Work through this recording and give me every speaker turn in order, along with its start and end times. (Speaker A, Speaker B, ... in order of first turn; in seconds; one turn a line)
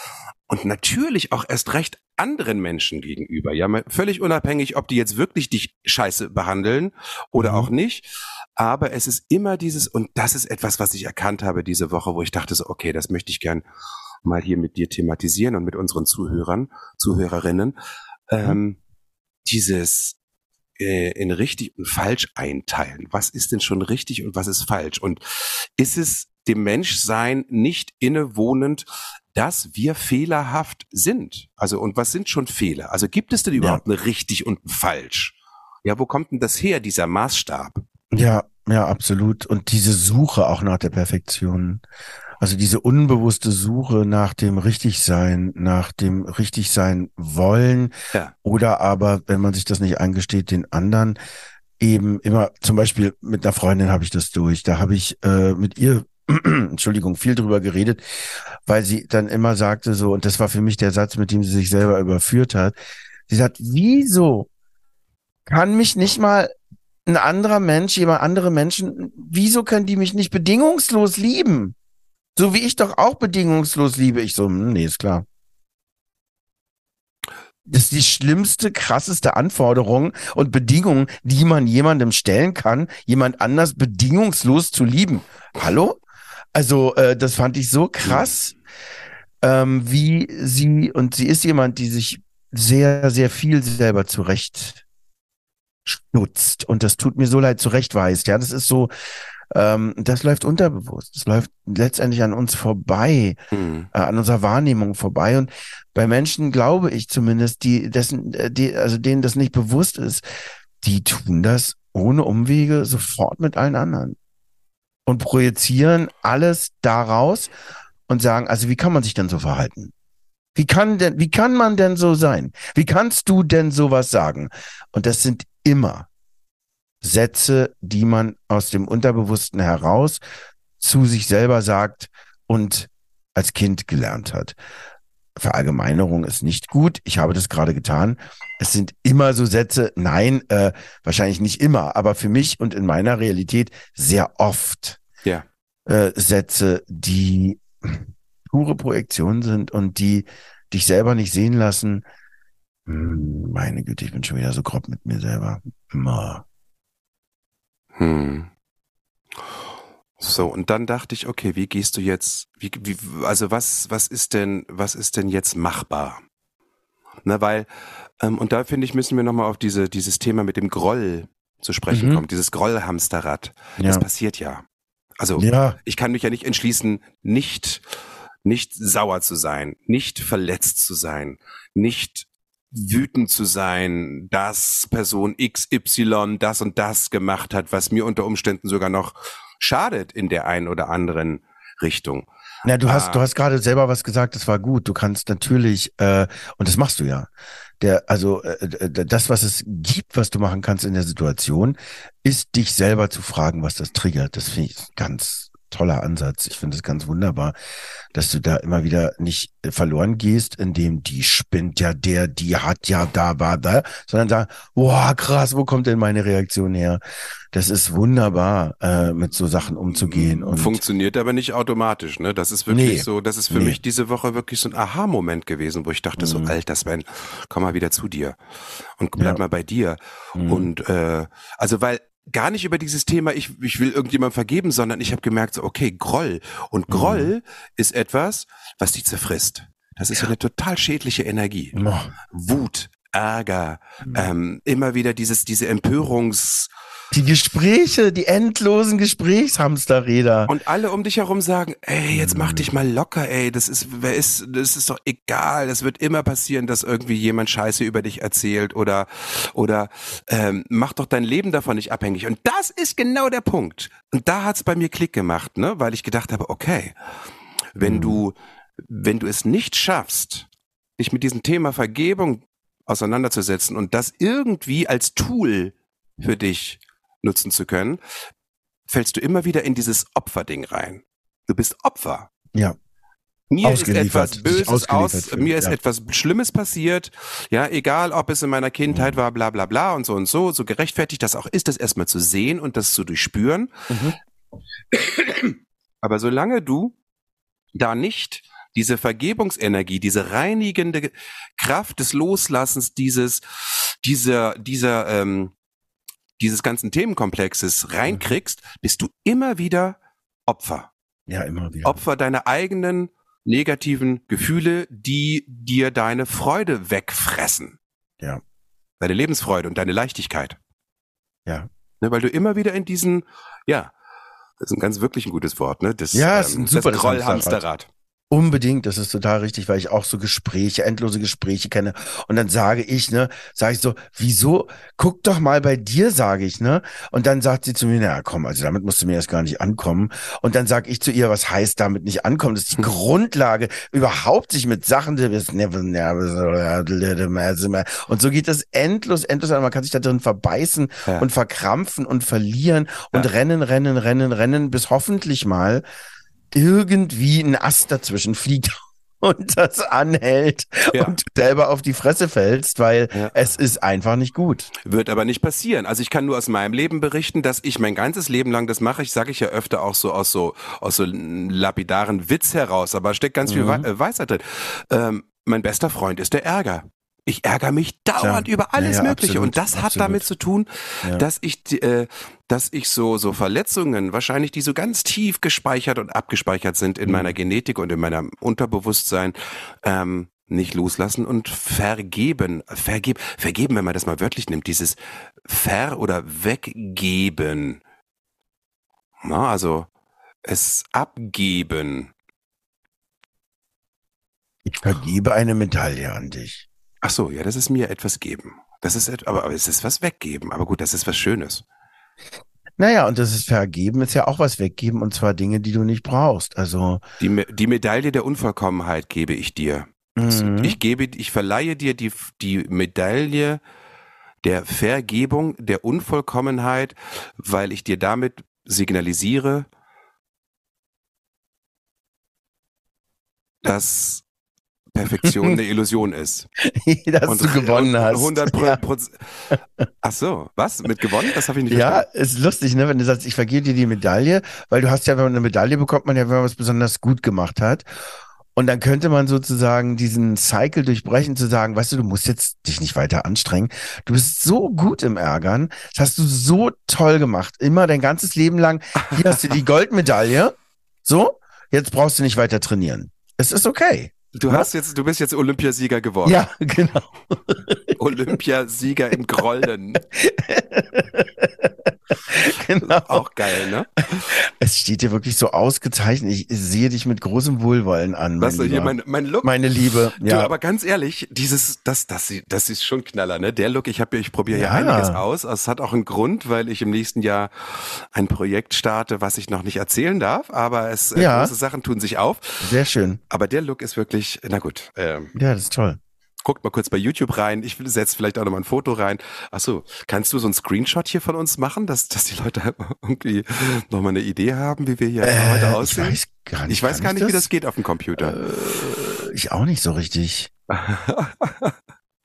Speaker A: 0.5-13.6
Speaker B: 7.4-7.7
Speaker A: 14.2-17.7
Speaker A: 18.3-18.8
Speaker A: 19.4-20.2
Speaker A: 20.8-37.8
Speaker B: 38.1-41.8
Speaker B: 42.4-51.2
Speaker B: 51.8-62.8
Speaker B: 63.3-64.5
Speaker B: 65.5-66.5
Speaker B: 67.0-71.7
Speaker B: 72.3-75.2
Speaker B: 77.7-86.0
Speaker B: 86.5-88.5
Speaker A: 88.0-88.3
Speaker B: 89.4-94.8
Speaker B: 95.9-98.9
Speaker B: 99.5-103.4
Speaker A: 103.5-103.9
Speaker B: 103.9-110.2
Speaker B: 110.8-114.2
Speaker B: 115.1-117.5
Speaker B: 118.1-119.9
Speaker B: 120.5-126.1
Speaker B: 127.0-130.2
Speaker B: 130.8-134.6
Speaker B: 135.4-145.0
Speaker B: 145.8-152.1
Speaker B: 152.9-156.4
Speaker A: 158.0-158.5
Speaker A: 160.2-166.2
Speaker A: 167.2-167.7
Speaker A: 168.2-174.6
Speaker B: 171.9-172.2
Speaker B: 173.8-174.0
Speaker A: 175.2-177.8
Speaker B: 175.4-175.8
Speaker A: 178.4-192.3
Speaker B: 192.6-197.3
Speaker A: 192.8-193.2
Speaker B: 197.8-207.5
Speaker B: 208.1-217.0
Speaker B: 217.5-220.8
Speaker A: 219.9-228.4
Speaker B: 222.7-223.8
Speaker B: 226.2-226.5
Speaker A: 229.0-241.8
Speaker B: 230.3-230.7
Speaker B: 236.9-237.3
Speaker B: 241.7-242.1
Speaker A: 242.3-246.7
Speaker B: 247.1-250.5
Speaker A: 250.5-266.9
Speaker B: 252.1-252.7
Speaker A: 267.8-278.0
Speaker B: 267.8-268.2
Speaker A: 278.9-282.3
Speaker A: 283.5-293.7
Speaker B: 283.6-285.8
Speaker B: 288.9-289.2
Speaker B: 293.9-294.2
Speaker A: 294.9-296.9
Speaker A: 297.7-305.5
Speaker A: 306.4-310.9
Speaker B: 311.3-312.0
Speaker A: 311.8-317.8
Speaker A: 319.0-320.6
Speaker A: 322.0-323.9
Speaker A: 324.6-327.9
Speaker B: 326.1-327.6
Speaker B: 328.3-355.8
Speaker B: 356.5-364.7
Speaker A: 360.9-361.2
Speaker A: 364.8-397.8
Speaker B: 373.4-373.9
Speaker B: 378.2-380.2
Speaker B: 387.0-387.3
Speaker A: 399.2-399.9
Speaker A: 400.4-402.1
Speaker B: 404.6-406.6
Speaker A: 407.0-411.6
Speaker B: 412.8-417.0
Speaker A: 417.2-423.6
Speaker B: 420.2-420.8
Speaker A: 424.4-429.7
Speaker A: 433.6-434.2
Speaker A: 434.9-436.5
Speaker B: 435.2-435.5
Speaker B: 436.6-438.8
Speaker A: 437.2-439.5
Speaker A: 440.0-442.1
Speaker B: 441.7-447.9
Speaker B: 448.5-464.7
Speaker A: 459.0-459.4
Speaker A: 464.3-466.4
Speaker B: 466.2-468.0
Speaker A: 468.0-470.0
Speaker B: 470.0-473.3
Speaker A: 472.8-474.3
Speaker B: 474.3-480.5
Speaker A: 478.4-479.6
Speaker A: 480.2-492.7
Speaker B: 484.5-485.2
Speaker B: 491.1-491.5
Speaker B: 492.6-493.2
Speaker A: 493.3-495.3
Speaker B: 495.3-496.0
Speaker A: 496.4-508.4
Speaker B: 505.2-507.5
Speaker B: 508.2-510.5
Speaker A: 510.7-511.7